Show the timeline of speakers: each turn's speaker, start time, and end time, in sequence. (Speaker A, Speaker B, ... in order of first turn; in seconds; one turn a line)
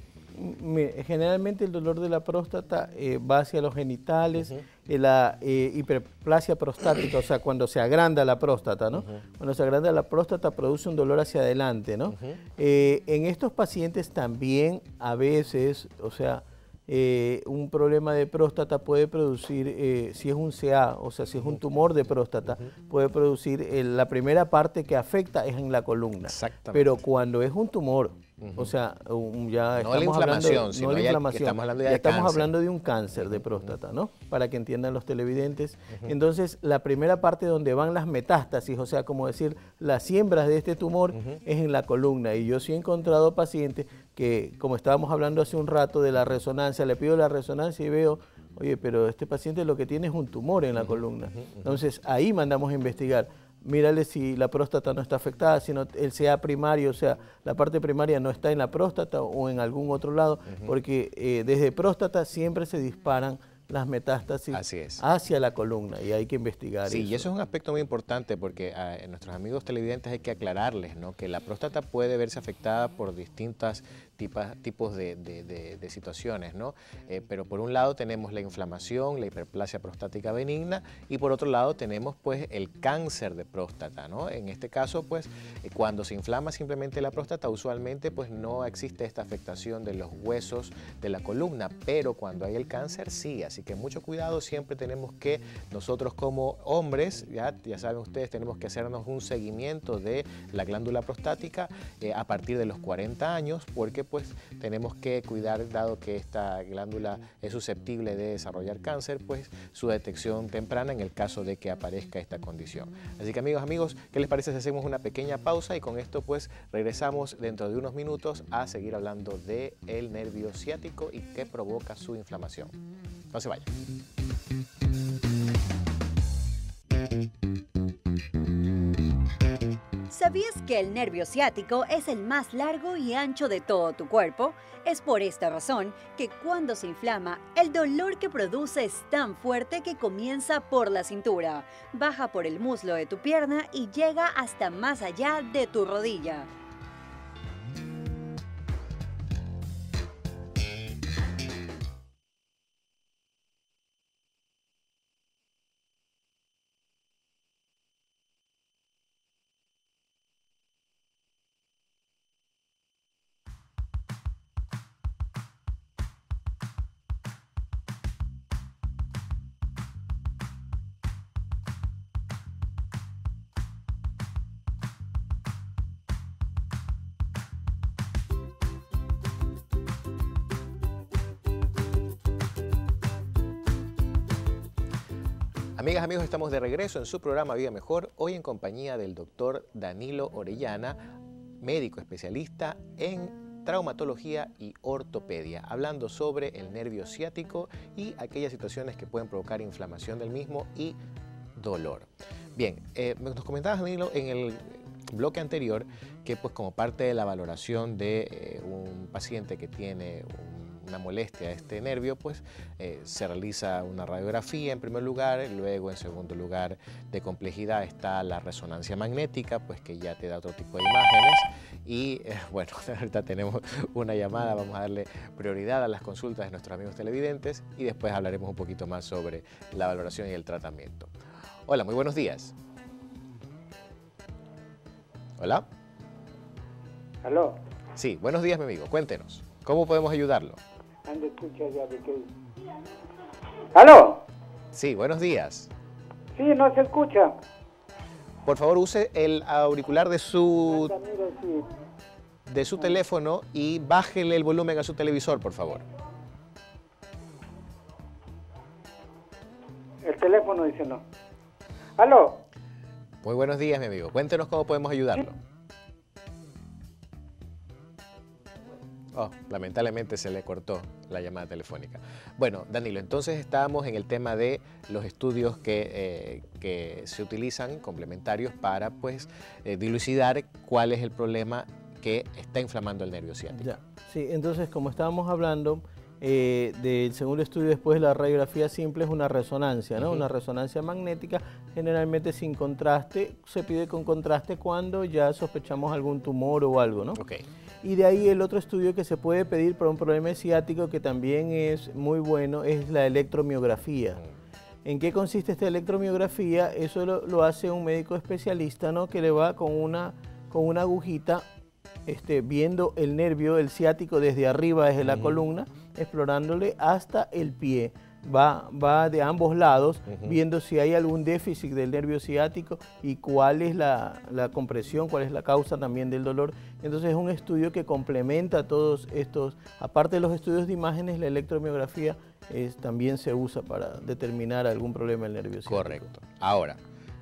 Speaker A: 0.3-67.3
Speaker B: 4.4-4.6
Speaker B: 8.9-9.2
Speaker B: 12.1-12.4
Speaker B: 26.3-26.9
Speaker B: 28.4-28.7
Speaker B: 29.8-32.5
Speaker B: 33.1-33.7
Speaker B: 50.8-51.8
Speaker B: 60.5-60.7
Speaker B: 64.5-65.0
Speaker B: 66.8-122.7
Speaker B: 123.3-123.7
Speaker C: 130.1-146.5
Speaker B: 185.8-191.0
Speaker B: 191.6-201.0
Speaker B: 201.6-231.1
Speaker B: 231.7-232.5
Speaker B: 235.4-235.7
Speaker D: 237.2-237.6
Speaker B: 237.9-240.6
Speaker D: 241.1-242.3
Speaker D: 243.7-244.2
Speaker B: 244.7-245.7
Speaker D: 246.3-247.3
Speaker B: 248.4-251.0
Speaker D: 250.7-251.7
Speaker B: 252.4-255.8
Speaker D: 260.0-261.0
Speaker D: 262.0-262.4
Speaker B: 263.2-265.4
Speaker B: 269.1-283.7
Speaker A: 283.5-297.2
Speaker B: 290.0-290.2
Speaker B: 297.1-297.4
Speaker A: 297.8-304.2
Speaker A: 304.9-311.4
Speaker A: 312.1-336.0
Speaker B: 315.0-315.4
Speaker B: 320.1-320.4
Speaker B: 335.6-336.8